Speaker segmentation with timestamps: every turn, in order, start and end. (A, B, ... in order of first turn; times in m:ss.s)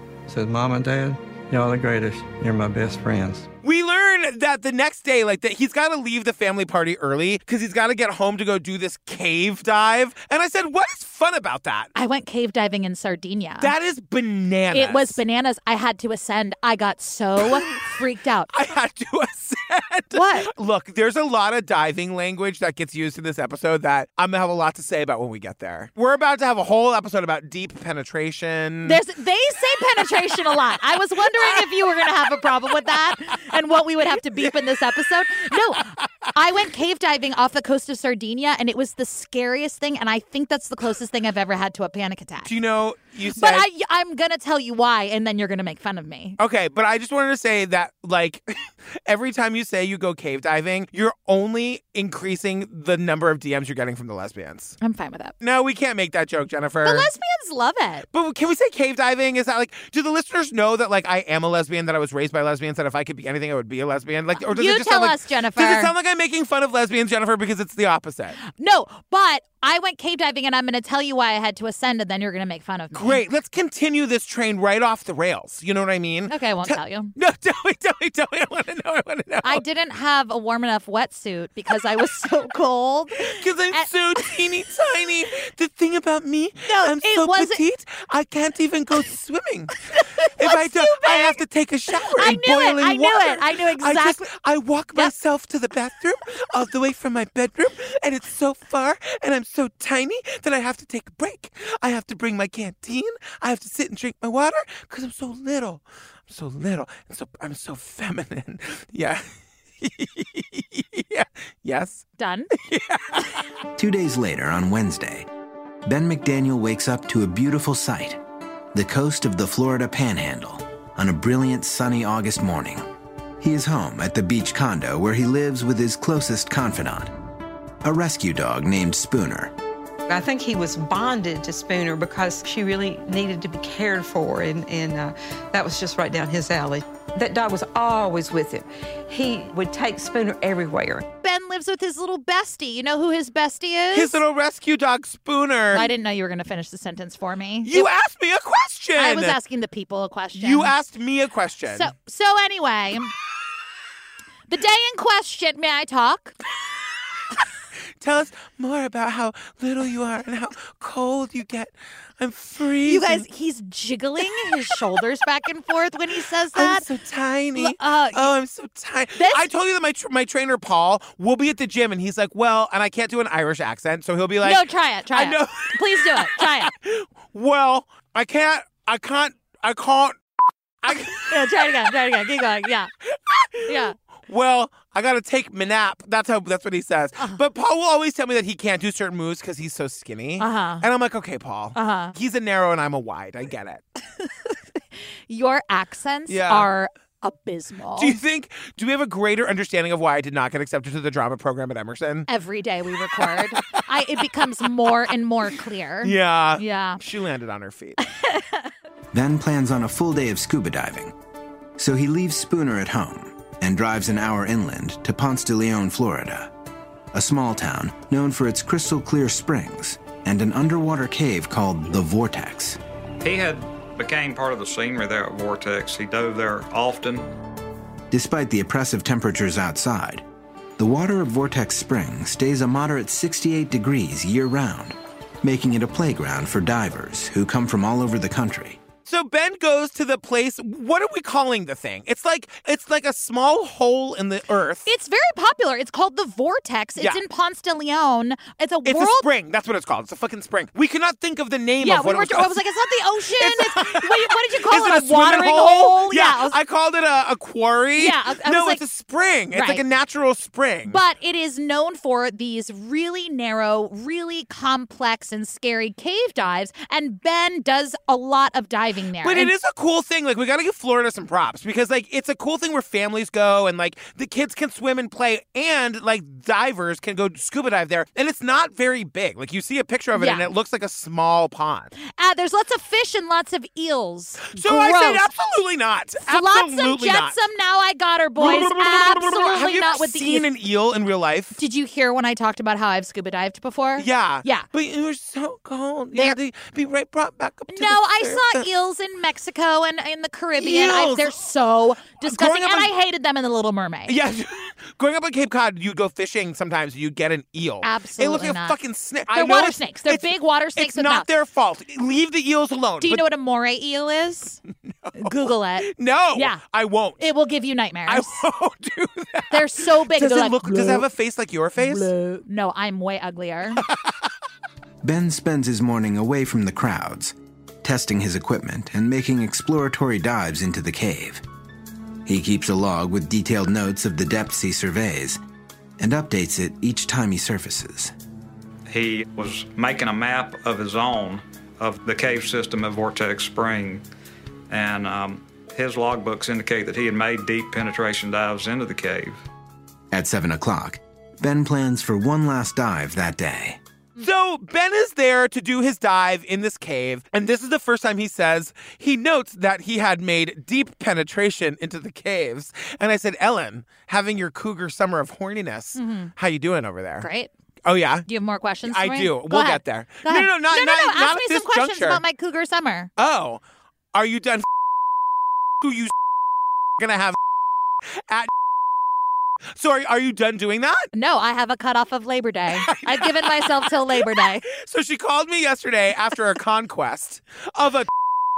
0:00.3-0:03.5 A
0:03.6-0:11.9 B
0:12.0-0:13.7 C
0:13.6-0:15.2 B
0:14.7-0:18.5 C
0:18.5-0:29.0 B
0:20.1-0:20.5 C
0:28.9-0:42.5 C
0:42.4-0:43.7 B
0:43.4-0:46.4 C
0:46.4-0:54.8 B
0:54.8-0:55.4 C
0:55.4-0:57.1 B
0:56.8-0:58.1 C
0:58.1-1:08.4 B
1:04.4-1:05.9 C
1:08.4-1:13.2 C
1:12.9-1:19.6 B
1:16.3-1:17.1 C
1:19.4-1:24.4 C
1:23.2-1:49.3 B
1:26.7-1:27.6 C
1:29.9-1:31.4 C
1:32.1-1:34.2 C
1:49.8-1:53.3 B
1:52.2-1:52.5 C
1:53.8-1:55.3 D
1:55.8-1:58.2 D
1:58.7-2:02.9 D
2:03.4-2:07.1 D
2:07.8-2:09.5 D
2:10.1-2:21.0 E
2:21.2-2:24.2 C
2:23.9-2:25.9 B
2:25.7-2:27.9 C
2:27.6-2:29.4 B
2:29.0-2:30.8 C
2:30.4-2:31.9 B
2:31.7-2:33.1 C
2:34.5-2:36.4 C
2:38.0-2:43.3 B
2:42.9-2:46.9 C
2:46.5-2:54.6 B
2:47.6-2:48.3 C
2:49.2-2:49.4 C
2:54.4-2:56.7 C
2:55.1-3:00.2 B
3:00.8-3:01.8 B
3:00.9-3:02.9 C
3:03.0-3:13.8 B
3:03.6-3:04.0 C
3:10.4-3:10.9 C
3:11.8-3:12.2 C
3:14.2-3:14.5 C
3:15.3-3:18.2 C
3:16.3-3:16.7 B
3:18.0-3:22.3 B
3:22.3-3:27.0 C
3:23.2-3:23.8 B
3:26.0-3:28.0 B
3:28.0-3:28.7 C
3:29.1-3:31.1 D
3:31.8-3:36.5 D
3:37.1-3:42.8 D
3:43.2-3:47.3 F
3:48.1-3:50.2 D
3:50.8-3:58.8 D
3:59.0-4:04.9 B
4:04.9-4:09.3 C
4:07.0-4:07.2 B
4:08.8-4:12.7 B
4:11.8-4:16.6 C
4:13.3-4:21.0 B
4:18.0-4:18.8 C
4:19.5-4:19.8 C
4:20.9-4:29.5 C
4:29.2-4:41.9 B
4:40.2-4:40.5 C
4:42.1-4:45.4 C
4:44.5-4:47.4 B
4:46.2-4:50.5 C
4:48.4-4:51.6 B
4:51.6-4:54.7 C
4:54.0-4:58.7 B
4:57.7-5:04.2 C
5:00.6-5:01.4 B
5:02.2-5:02.9 B
5:04.1-5:13.2 B
5:07.8-5:11.3 C
5:13.0-5:14.6 C
5:14.9-5:17.2 B
5:15.2-5:16.6 C
5:17.2-5:18.4 C
5:18.1-5:22.1 B
5:19.5-5:21.1 C
5:21.8-5:23.8 C
5:23.8-5:24.1 B
5:25.0-5:31.4 D
5:32.2-5:35.4 D
5:36.0-5:38.1 D
5:38.9-5:44.0 F
5:44.7-5:49.4 F
5:50.1-5:53.8 D
5:54.2-6:07.3 B
6:06.0-6:06.3 C
6:07.2-6:07.5 C
6:07.8-6:08.3 B
6:08.3-6:13.1 C
6:08.8-6:12.2 B
6:13.2-6:13.6 B
6:14.1-6:14.7 B
6:15.8-6:16.1 B
6:17.0-6:17.4 B
6:19.8-6:21.1 B
6:21.1-6:24.6 C
6:22.8-6:23.9 B
6:24.7-6:28.1 B